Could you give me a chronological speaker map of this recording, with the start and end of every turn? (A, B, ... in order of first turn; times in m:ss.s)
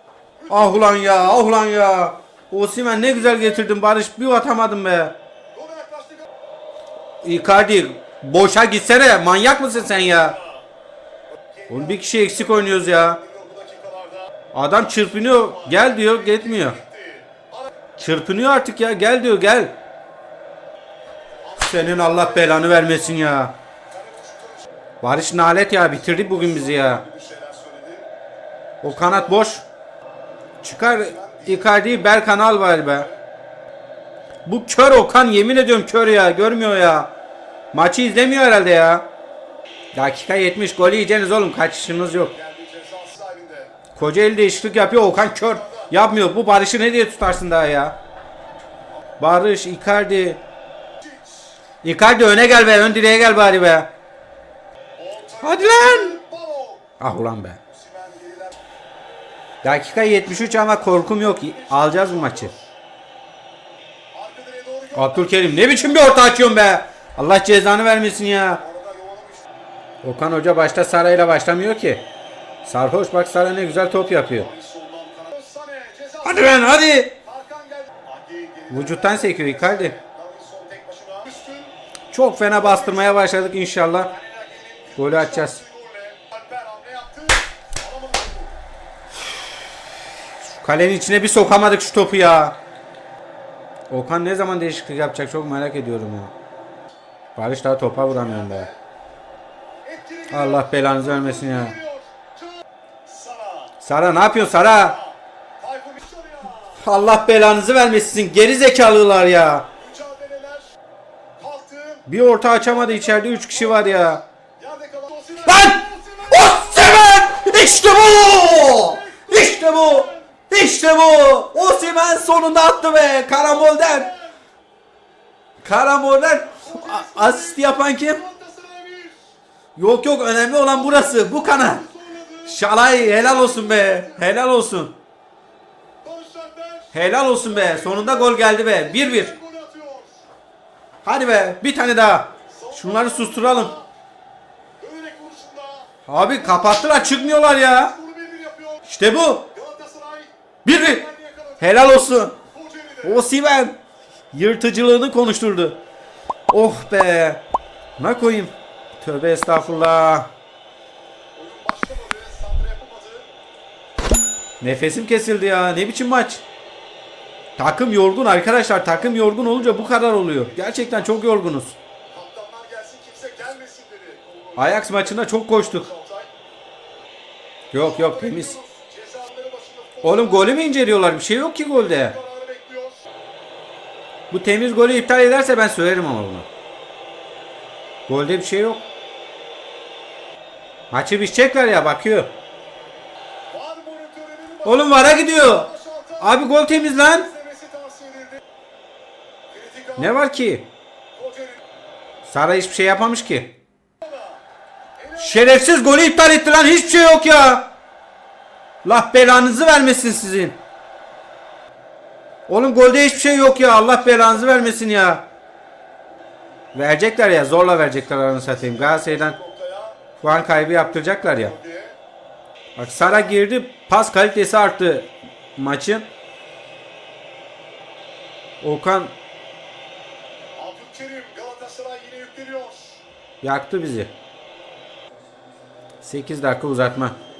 0:00.4-0:01.6 A
0:00.5-0:05.1 B
0:02.9-0:03.7 A
0:05.5-0:06.3 A
0:07.2-0:10.4 B
0:09.7-0:10.6 A
0:11.3-0:17.7 A
0:11.7-0:13.2 B
0:14.5-0:16.8 B
0:18.0-0:19.7 B
0:21.4-0:24.7 A
0:21.6-0:23.5 B
0:25.0-0:27.0 B
0:25.8-0:28.1 A
0:28.8-0:29.6 B
0:28.8-0:29.5 A
0:30.6-0:33.1 B
0:31.0-0:31.9 A
0:34.4-0:37.1 B
0:37.7-0:39.1 B
0:39.9-0:42.3 B
0:42.3-0:43.7 A
0:43.9-0:48.0 B
0:45.2-0:45.9 A
0:49.2-0:50.4 B
0:51.0-0:51.5 A
0:51.8-0:53.9 B
0:52.7-0:53.3 A
0:55.0-0:56.8 A
0:55.4-0:56.2 B
0:57.0-0:57.6 B
0:57.6-0:58.6 A
0:59.6-1:02.5 B
0:59.9-1:02.7 A
1:04.1-1:06.2 A
1:04.9-1:08.6 B
1:08.5-1:09.5 A
1:10.0-1:12.0 B
1:12.6-1:14.5 B
1:14.2-1:21.7 A
1:16.2-1:17.1 B
1:18.7-1:20.0 B
1:22.1-1:24.1 B
1:22.4-1:23.4 A
1:24.0-1:28.6 A
1:25.0-1:25.6 B
1:30.6-1:32.6 B
1:33.9-1:36.3 B
1:37.4-1:38.7 B
1:38.0-1:38.8 A
1:39.8-1:43.8 A
1:40.3-1:41.7 B
1:43.8-1:45.0 B
1:44.3-1:46.8 A
1:46.8-1:49.7 B
1:49.8-1:50.7 A
1:51.4-2:00.3 A
1:52.1-1:54.2 B
1:55.4-2:04.1 B
2:02.5-2:04.3 A
2:05.6-2:08.2 B
2:06.5-2:09.2 A
2:09.8-2:11.8 B
2:10.7-2:14.3 A
2:12.4-2:15.0 B
2:16.0-2:20.2 A
2:16.9-2:19.3 B
2:21.0-2:23.7 B
2:22.5-2:23.9 A
2:24.8-2:28.8 A
2:26.1-2:27.9 B
2:28.9-2:29.5 B
2:29.5-2:32.0 A
2:30.6-2:31.0 B
2:31.6-2:32.4 B
2:32.5-2:33.2 A
2:33.0-2:33.7 B
2:34.3-2:35.8 B
2:36.5-2:37.4 B
2:38.0-2:40.3 B
2:41.3-2:43.3 A
2:44.6-2:46.4 B
2:47.6-2:51.8 B
2:48.8-2:51.2 A
2:52.1-2:56.3 A
2:54.6-2:55.9 B
2:57.7-2:58.6 B
2:57.7-3:00.6 A
3:00.0-3:02.1 B
3:01.7-3:03.0 A
3:04.3-3:06.4 B
3:08.1-3:08.8 B
3:10.9-3:12.3 B
3:13.5-3:18.4 A
3:14.6-3:17.3 B
3:19.5-3:20.2 A
3:20.0-3:20.7 B
3:21.1-3:21.6 A
3:22.2-3:23.5 B
3:24.0-3:24.4 A
3:25.0-3:26.0 A
3:25.2-3:27.7 B
3:28.8-3:30.6 B
3:32.5-3:35.2 B
3:33.3-3:34.8 A
3:36.7-3:39.3 B
3:38.2-3:40.0 A
3:40.2-3:41.5 B
3:41.1-3:42.0 A
3:42.8-3:46.0 B
3:42.8-3:43.4 A
3:48.6-3:49.1 B
3:50.6-3:53.0 A
3:53.4-3:54.1 B
3:56.0-3:57.2 B